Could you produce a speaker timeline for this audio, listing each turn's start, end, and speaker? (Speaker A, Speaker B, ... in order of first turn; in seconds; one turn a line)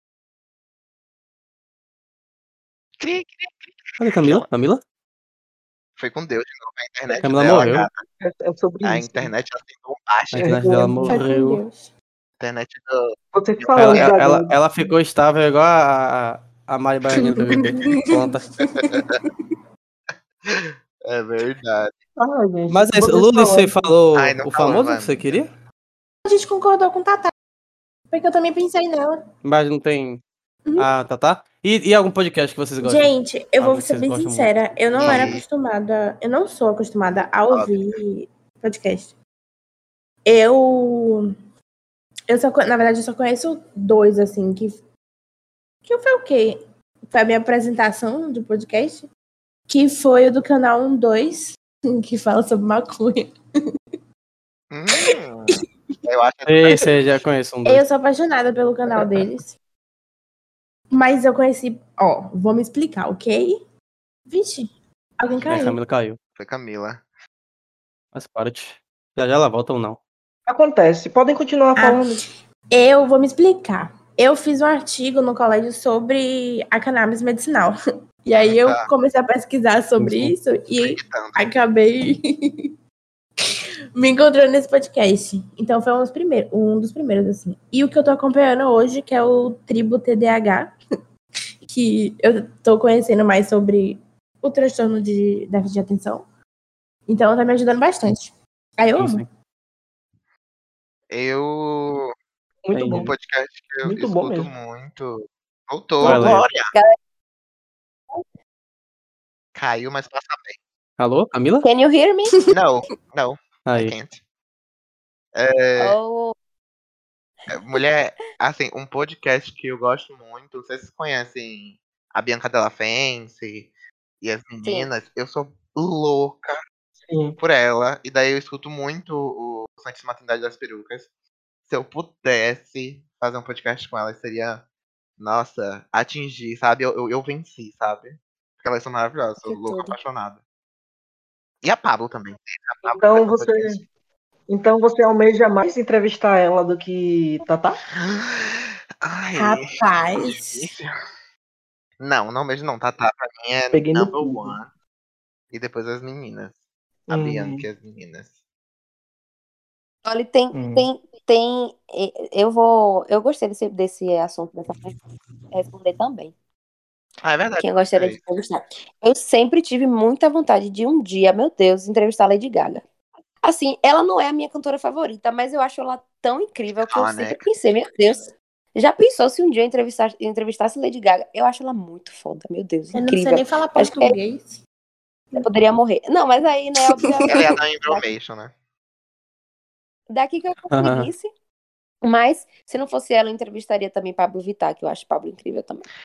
Speaker A: 3.0-4.5
Speaker B: 4.0-4.8
Speaker A: 6.0-8.0
Speaker B: 7.1-7.9
Speaker C: 8.2-9.3
Speaker A: 8.8-10.6
Speaker B: 10.3-11.6
Speaker C: 10.4-11.2
Speaker D: 11.1-11.9
Speaker A: 12.4-14.2
Speaker C: 13.3-14.6
Speaker B: 13.8-18.6
Speaker D: 17.2-19.2
Speaker A: 18.8-19.2
Speaker A: 20.4-22.0
Speaker C: 22.2-23.9
Speaker B: 22.7-25.5
Speaker A: 24.1-25.5
Speaker D: 26.2-27.3
Speaker D: 28.1-29.2
Speaker B: 29.4-30.2
Speaker B: 30.8-35.4
Speaker D: 32.8-39.1
Speaker A: 35.0-35.4
Speaker A: 37.5-38.0
Speaker D: 40.2-41.3
Speaker D: 42.3-44.8
Speaker D: 45.9-49.1
Speaker D: 49.7-53.3
Speaker A: 54.7-57.2
Speaker D: 55.0-55.6
Speaker B: 56.5-57.8
Speaker D: 57.6-59.6
Speaker D: 60.9-63.6
Speaker D: 64.3-65.8
Speaker B: 65.5-66.2
Speaker A: 66.4-67.0
Speaker B: 68.1-70.0
Speaker C: 70.5-72.3
Speaker D: 71.8-82.7
Speaker A: 78.3-78.9
Speaker B: 80.0-80.4
Speaker A: 80.8-81.5
Speaker D: 84.0-90.8
Speaker D: 91.7-96.2
Speaker D: 97.1-99.2
Speaker B: 99.0-99.3
Speaker A: 101.1-102.1
Speaker C: 102.7-103.1
Speaker B: 102.7-103.1
Speaker A: 102.9-106.7
Speaker C: 103.8-104.5
Speaker B: 106.0-106.5
Speaker E: 106.0-107.0
Speaker A: 109.5-110.6
Speaker B: 111.0-111.7
Speaker E: 111.6-112.3
Speaker A: 112.5-114.2
Speaker B: 113.7-114.0
Speaker A: 115.3-116.0
Speaker E: 115.8-116.3
Speaker A: 117.5-123.7
Speaker A: 124.2-126.6
Speaker E: 124.6-124.9
Speaker C: 127.1-127.4
Speaker A: 127.4-131.1
Speaker A: 131.7-134.6
Speaker A: 135.2-140.4
Speaker E: 139.4-140.0
Speaker A: 141.6-143.8
Speaker C: 142.9-143.8
Speaker C: 144.5-147.8
Speaker A: 148.0-150.9
Speaker D: 149.4-150.7
Speaker A: 152.0-154.7
Speaker C: 153.7-154.6
Speaker A: 155.5-156.6
Speaker C: 157.1-157.7
Speaker A: 157.1-158.3
Speaker E: 160.1-165.0
Speaker C: 160.5-160.9
Speaker E: 165.5-166.3
Speaker A: 167.2-168.2
Speaker E: 167.6-172.8
Speaker E: 173.4-184.2
Speaker A: 176.9-177.4
Speaker D: 182.9-184.6
Speaker E: 185.3-188.1
Speaker A: 187.3-188.5
Speaker E: 190.1-191.3
Speaker B: 190.7-191.1
Speaker E: 192.0-195.8